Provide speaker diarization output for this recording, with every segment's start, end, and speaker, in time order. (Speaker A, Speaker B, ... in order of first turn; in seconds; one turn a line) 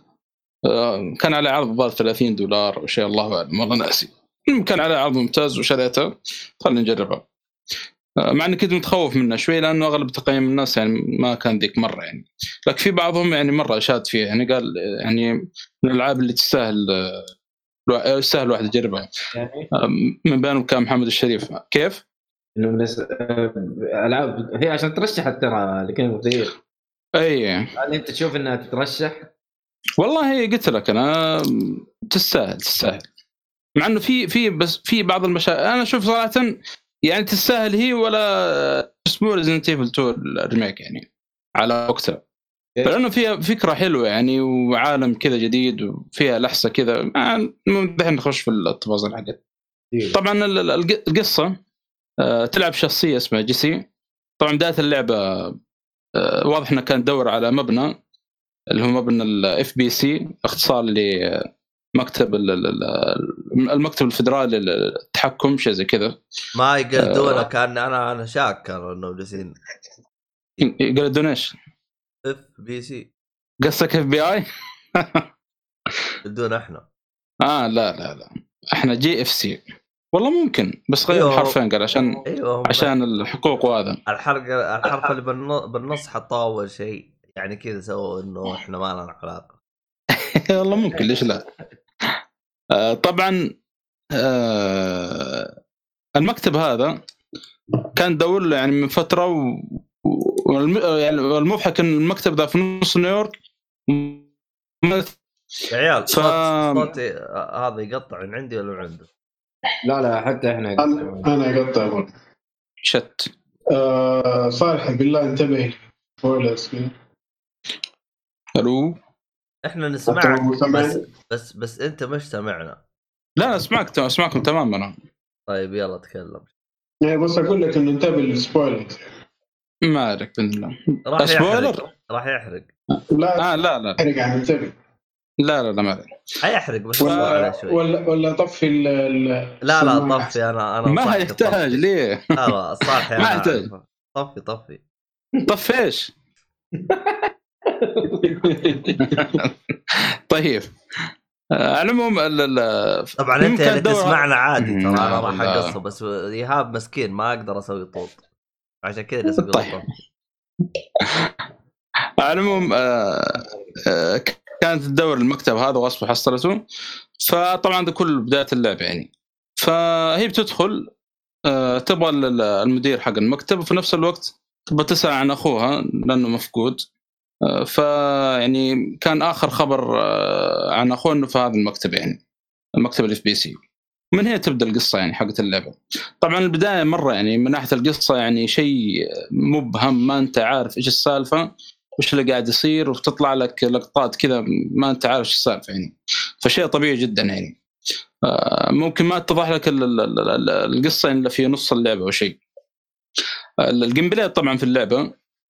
Speaker A: 0.7-6.1
Speaker A: 6.6-7.2
Speaker A: 8.2-15.3
Speaker A: 15.8-17.2
Speaker A: 17.9-19.1
Speaker B: 19.3-19.7
Speaker A: 19.8-22.0
Speaker B: 22.6-26.5
Speaker A: 27.2-27.7
Speaker B: 27.8-29.3
Speaker A: 30.0-33.0
Speaker A: 33.8-36.5
Speaker A: 37.1-41.1
Speaker A: 41.6-42.2
Speaker A: 42.9-49.4
Speaker A: 50.1-51.5
Speaker A: 52.2-53.8
Speaker A: 54.4-55.5
Speaker A: 56.2-57.9
Speaker A: 58.7-61.4
Speaker A: 62.0-66.2
Speaker C: 66.6-69.6
Speaker A: 67.0-67.5
Speaker A: 70.6-71.5
Speaker C: 72.2-73.1
Speaker A: 73.6-74.5
Speaker A: 75.0-75.2
Speaker C: 76.2-76.8
Speaker A: 77.4-79.6
Speaker A: 80.1-84.0
Speaker C: 81.1-81.5
Speaker C: 82.3-82.9
Speaker C: 84.1-89.5
Speaker A: 90.2-91.4
Speaker A: 92.7-93.4
Speaker A: 94.2-95.5
Speaker A: 96.2-97.0
Speaker A: 98.0-103.3
Speaker A: 103.9-104.2
Speaker A: 104.8-105.1
Speaker C: 105.7-109.1
Speaker A: 106.1-106.9
Speaker B: 109.8-111.3
Speaker D: 110.8-112.1
Speaker A: 112.8-113.3
Speaker D: 113.7-116.9
Speaker A: 118.6-119.0
Speaker C: 119.6-122.8
Speaker D: 120.1-121.0
Speaker A: 123.4-124.9
Speaker C: 125.5-126.5
Speaker D: 127.0-129.0
Speaker A: 129.9-131.8
Speaker C: 131.1-132.7
Speaker D: 133.1-134.7
Speaker A: 133.4-134.0
Speaker A: 135.4-136.1
Speaker C: 136.4-137.8
Speaker D: 137.0-140.3
Speaker A: 137.0-137.3
Speaker C: 139.7-144.8
Speaker A: 140.9-143.7
Speaker A: 145.5-146.1
Speaker B: 146.8-148.4
Speaker D: 148.2-149.4
Speaker A: 149.1-150.7
Speaker A: 151.6-155.7
Speaker C: 153.2-158.2
Speaker C: 158.8-159.9
Speaker A: 159.4-159.7
Speaker A: 161.0-161.3
Speaker A: 162.2-166.6
Speaker A: 167.2-170.9
Speaker A: 171.5-176.8
Speaker A: 177.5-182.2
Speaker A: 182.8-183.6
Speaker A: 184.1-188.8
Speaker A: 189.5-191.5
Speaker A: 192.0-197.5
Speaker A: 198.3-202.4
Speaker A: 203.7-205.1